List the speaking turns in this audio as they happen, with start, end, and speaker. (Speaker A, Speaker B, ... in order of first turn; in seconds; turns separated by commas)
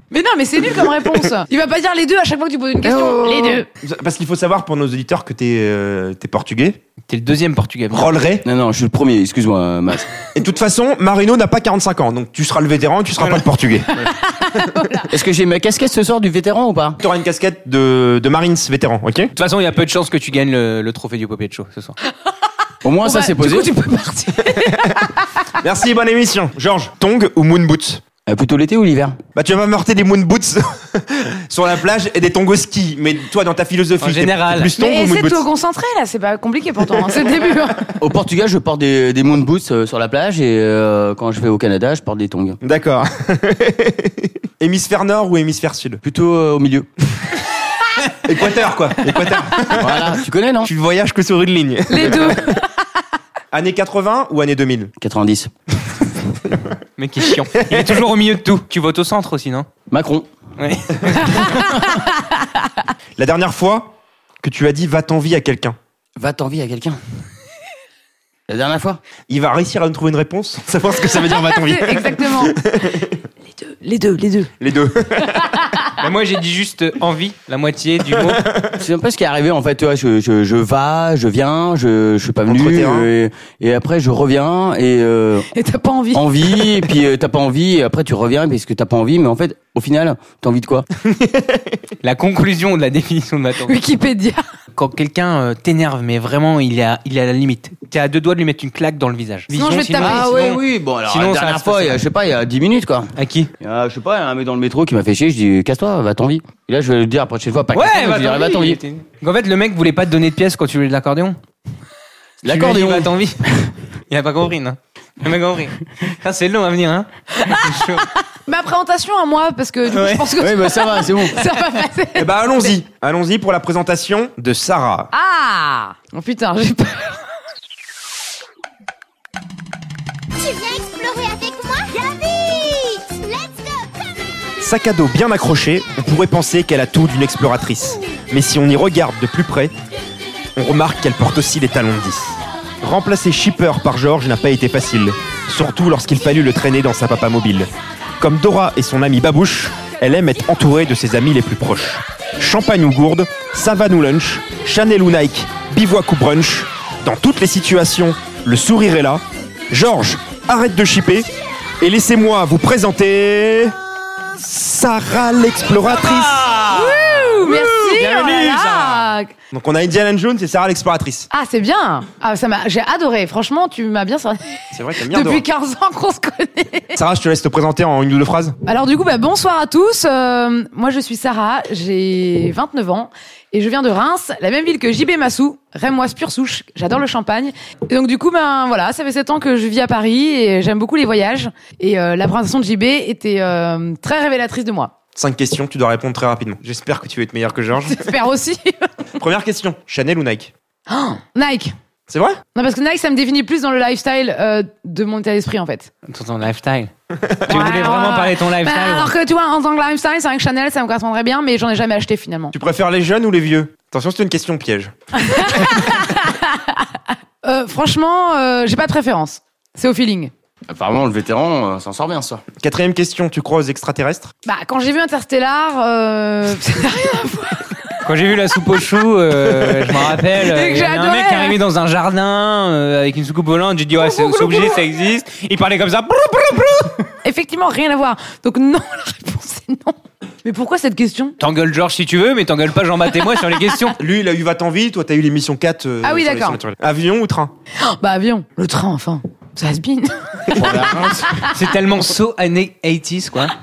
Speaker A: 0.1-3.7, Speaker B: 2.8-3.6, Speaker C: 3.8-6.8, Speaker D: 7.1-8.1, Speaker C: 7.9-8.4, Speaker B: 8.4-10.1, Speaker C: 10.3-13.9, Speaker A: 13.9-15.1, Speaker B: 15.1-17.0, Speaker C: 17.0-19.3, Speaker D: 19.4-21.9, Speaker B: 22.8-23.7, Speaker A: 23.0-25.2, Speaker C: 25.6-28.0, Speaker B: 28.3-29.2, Speaker C: 29.4-35.4, Speaker D: 34.0-34.7, Speaker A: 34.7-37.9, Speaker B: 38.0-42.6, Speaker C: 42.6-46.0, Speaker B: 46.0-46.9, Speaker C: 48.2-52.5, Speaker B: 49.8-50.7, Speaker A: 51.9-52.6, Speaker C: 53.5-54.9, Speaker B: 55.0-55.5, Speaker D: 57.0-59.7, Speaker B: 59.9-60.3, Speaker D: 60.6-61.6, Speaker A: 61.4-62.0, Speaker C: 63.2-65.8, Speaker B: 66.2-67.0, Speaker B: 68.5-69.0, Speaker C: 69.3-73.1, Speaker A: 71.1-72.5, Speaker A: 73.5-74.5, Speaker C: 74.6-75.4, Speaker D: 76.0-78.4, Speaker B: 78.8-85.5, Speaker C: 82.5-83.1, Speaker A: 85.5-86.3, Speaker B: 86.1-90.9, Speaker D: 92.0-93.8, Speaker A: 93.7-94.4, Speaker D: 94.7-102.0, Speaker A: 99.5-100.4, Speaker B: 100.0-108.8, Speaker D: 103.2-103.5, Speaker D: 107.7-111.4, Speaker B: 112.4-113.5, Speaker D: 112.4-113.4, Speaker D: 114.1-118.1, Speaker A: 117.4-122.7, Speaker D: 119.9-120.3, Speaker B: 120.3-121.4, Speaker C: 122.2-125.1, Speaker A: 125.1-127.2, Speaker E: 130.4-134.0, Speaker C: 134.6-139.7, Speaker C: 140.6-147.7, Speaker C: 148.2-161.3, Speaker C: 161.8-163.7, Speaker C: 164.4-171.3, Speaker A: 166.7-169.3, Speaker A: 171.3-177.0, Speaker C: 174.7-175.4, Speaker C: 176.9-178.6, Speaker A: 178.6-194.9, Speaker C: 195.1-198.1, Speaker A: 197.8-198.8, Speaker C: 199.2-200.5, Speaker A: 200.9-201.7, Speaker C: 202.1-202.4, Speaker A: 202.5-205.9, Speaker D: 206.1-206.9, Speaker A: 207.5-212.5, Speaker D: 207.5-209.1, Speaker C: 212.5-214.9, Speaker A: 215.2-216.8, Speaker A: 217.4-220.3, Speaker B: 220.7-222.4, Speaker C: 222.6-224.3, Speaker A: 224.4-227.8, Speaker D: 228.0-237.0, Speaker A: 230.3-231.6, Speaker A: 234.0-234.7, Speaker A: 237.2-241.3, Speaker D: 241.4-243.9, Speaker C: 244.0-247.5, Speaker A: 246.0-246.6, Speaker A: 247.8-251.0, Speaker C: 250.6-251.0, Speaker B: 250.6-251.2, Speaker D: 251.5-253.5